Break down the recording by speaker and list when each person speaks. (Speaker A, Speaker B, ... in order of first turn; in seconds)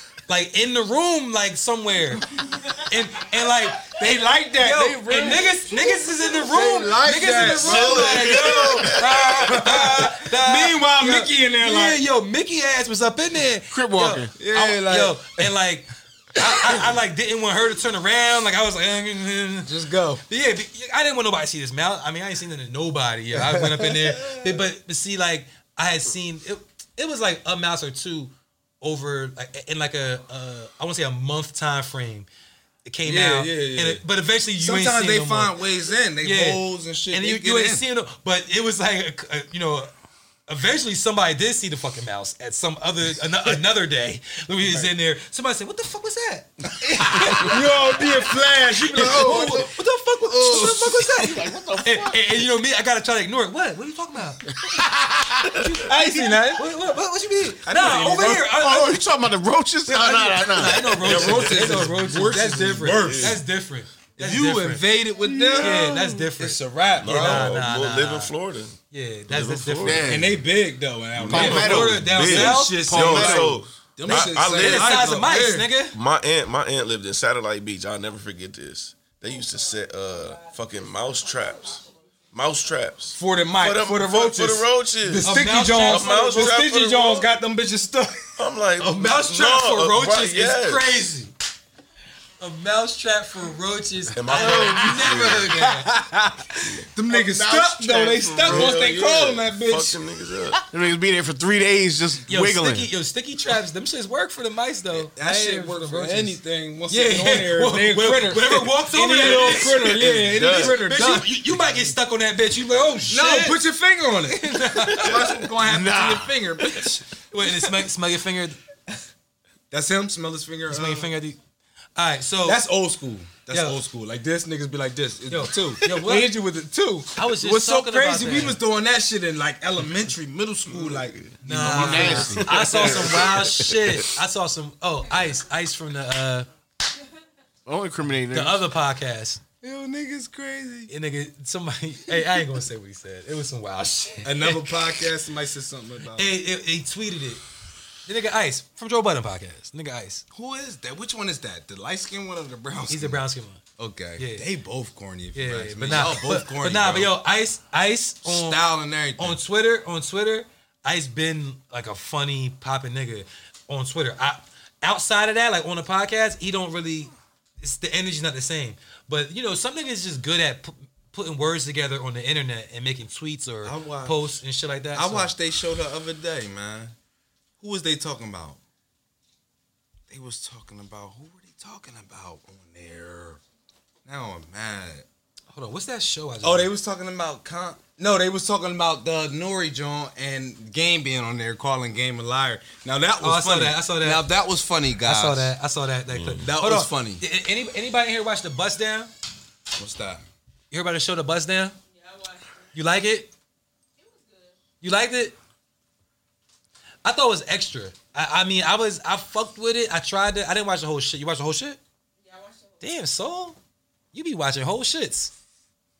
Speaker A: 0.3-2.3, 2.8-3.9, 4.6-19.7, 20.3-32.3, 32.9-35.6, 36.2-39.9, 40.5-54.5, 55.5-59.0, 59.9-64.8, 65.6-68.3, 68.9-70.1, 71.3-73.2, 74.1-76.0, 85.2-86.5, 88.8-91.3, 92.4-95.9, 102.3-113.6, 114.3-115.4, 117.3-118.6, 120.7-121.4, 122.0-122.6, 123.5-123.8, 125.3-126.3, 127.2-128.6, 131.4-136.5, 138.3-139.4, 140.9-145.0, 146.1-147.4, 148.1-150.2, 152.9-153.6, 154.2-154.5, 155.3-158.6, 159.2-175.3, 185.5-186.7, 193.2-194.2, 195.0-199.1, 200.7-201.8, 202.7-203.3, 204.8-205.3, 207.0-211.8, 212.8-213.6, 214.1-215.3
Speaker B: 3.8-5.7, 6.3-12.0, 14.4-15.4, 19.6-20.2, 23.3-24.6, 33.0-34.0, 34.5-37.8, 46.8-51.2, 55.8-56.7, 57.6-58.4, 61.0-63.4, 64.2-67.5, 70.1-75.7, 83.1-88.4, 95.5-100.0, 104.9-111.3, 113.1-117.0, 119.7-121.1, 122.4-132.4, 139.6-140.9, 144.2-146.3, 150.3-153.2, 153.8-157.1, 158.2-159.4, 173.6-174.2, 174.9-176.9, 177.6-178.6, 180.1-183.4, 184.0-185.1, 186.4-195.5, 196.4-197.2, 199.8-200.2
Speaker C: 7.3-9.7, 61.0-61.9, 62.8-63.4, 67.0-68.8, 69.3-70.3, 71.2-75.0, 75.9-87.3, 88.4-91.1, 94.1-95.6, 98.0-100.6, 109.2-110.8, 130.8-134.1, 196.1-196.4
Speaker D: 13.7-14.3, 49.0-49.6, 50.5-52.4, 54.5-55.5, 58.2-61.1, 65.2-65.8, 69.8-70.4, 71.2-73.6, 97.1-98.8, 100.6-102.9, 115.6-116.6, 131.4-132.9, 137.7-138.6
Speaker E: 201.9-202.7, 204.0-204.6, 212.2-212.8